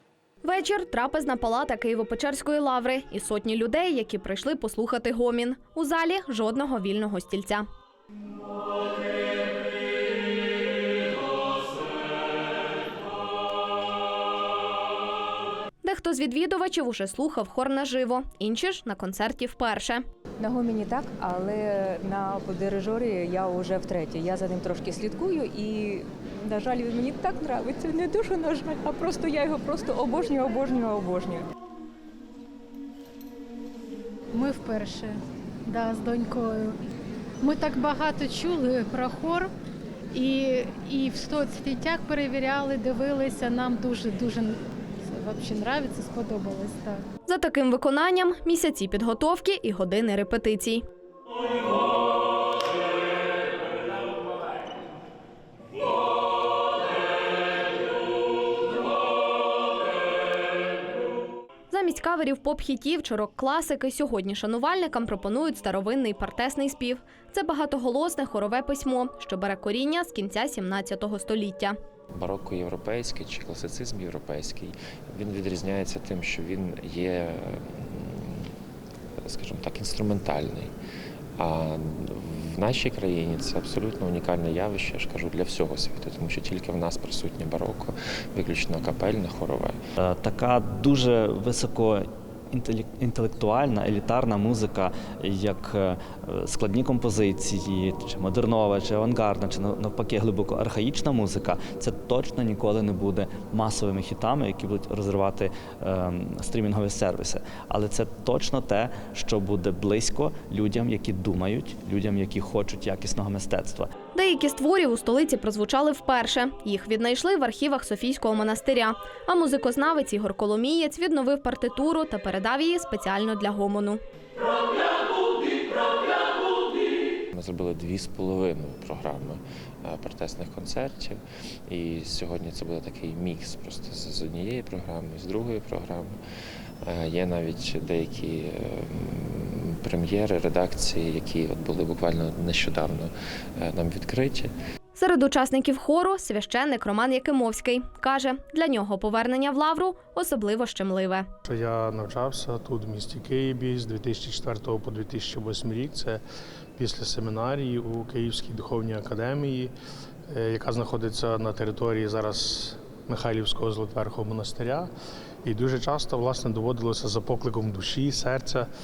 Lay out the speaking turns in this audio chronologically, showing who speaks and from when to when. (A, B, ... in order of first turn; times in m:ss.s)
0:00.4-0:07.6 A
0:15.8-0:20.0 A
0:20.4-0:31.5 B
0:34.3-0:36.8 C
0:37.4-0:39.5 C
0:40.1-0:47.0 C
0:47.3-0:50.8 A
1:01.7-1:11.8 A
1:12.1-1:18.5 D
1:19.2-1:20.7 D
1:21.4-1:29.8 D
1:30.0-1:53.9 E
1:54.1-2:04.0 A
2:07.3-2:16.2 D
2:16.8-2:24.5 D
2:25.0-2:31.3 A
2:31.4-2:36.2 F
2:36.8-2:39.7 F
2:40.3-2:44.9 F
2:45.4-2:48.7 F